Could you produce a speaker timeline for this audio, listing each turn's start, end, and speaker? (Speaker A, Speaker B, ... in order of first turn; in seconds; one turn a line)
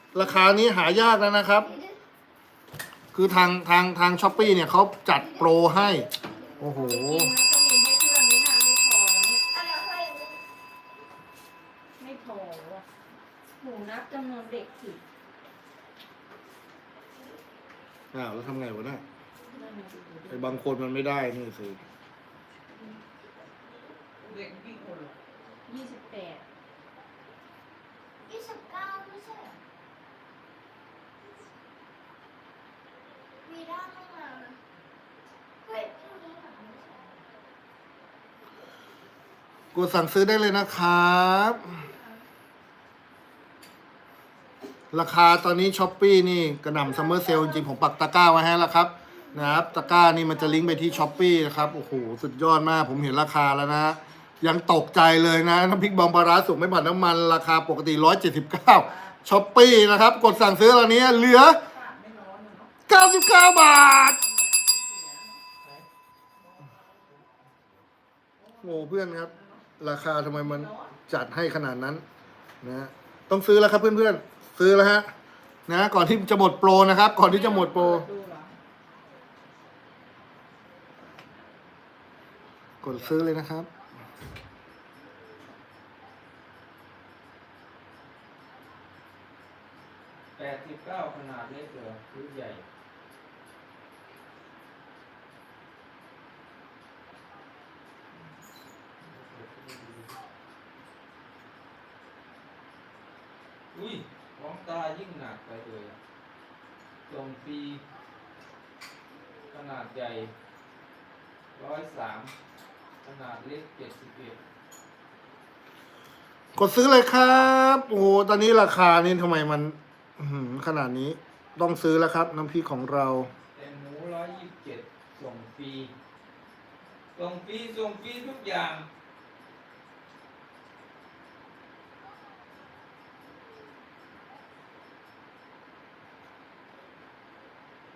Speaker A: 0.1-1.7
Speaker B: 1.6-1.9
Speaker A: 3.1-7.3
Speaker B: 5.2-6.6
Speaker C: 6.6-9.4
Speaker B: 9.5-10.4
Speaker C: 12.0-12.8
Speaker C: 13.6-15.0
Speaker A: 18.1-19.0
Speaker C: 19.5-20.6
Speaker A: 20.3-21.8
Speaker D: 24.2-25.2
Speaker C: 25.6-26.4
Speaker B: 28.2-29.6
Speaker B: 33.4-34.6
Speaker B: 35.6-37.2
Speaker A: 39.7-41.8
Speaker B: 41.8-42.2
Speaker A: 44.9-61.6
Speaker B: 46.9-47.5
Speaker B: 49.1-52.0
Speaker D: 58.7-59.1
Speaker D: 61.5-62.7
Speaker A: 62.9-64.2
Speaker D: 64.2-65.4
Speaker D: 68.4-69.6
Speaker A: 68.6-72.0
Speaker D: 70.3-71.0
Speaker A: 72.6-75.1
Speaker A: 75.7-78.1
Speaker C: 77.3-78.5
Speaker A: 82.8-83.7
Speaker E: 90.3-92.6
Speaker E: 99.0-100.2
Speaker E: 103.7-106.0
Speaker E: 107.1-107.8
Speaker E: 109.5-110.3
Speaker E: 111.5-112.3
Speaker E: 113.0-114.4
Speaker A: 116.5-123.3
Speaker E: 123.5-125.9
Speaker E: 127.2-128.9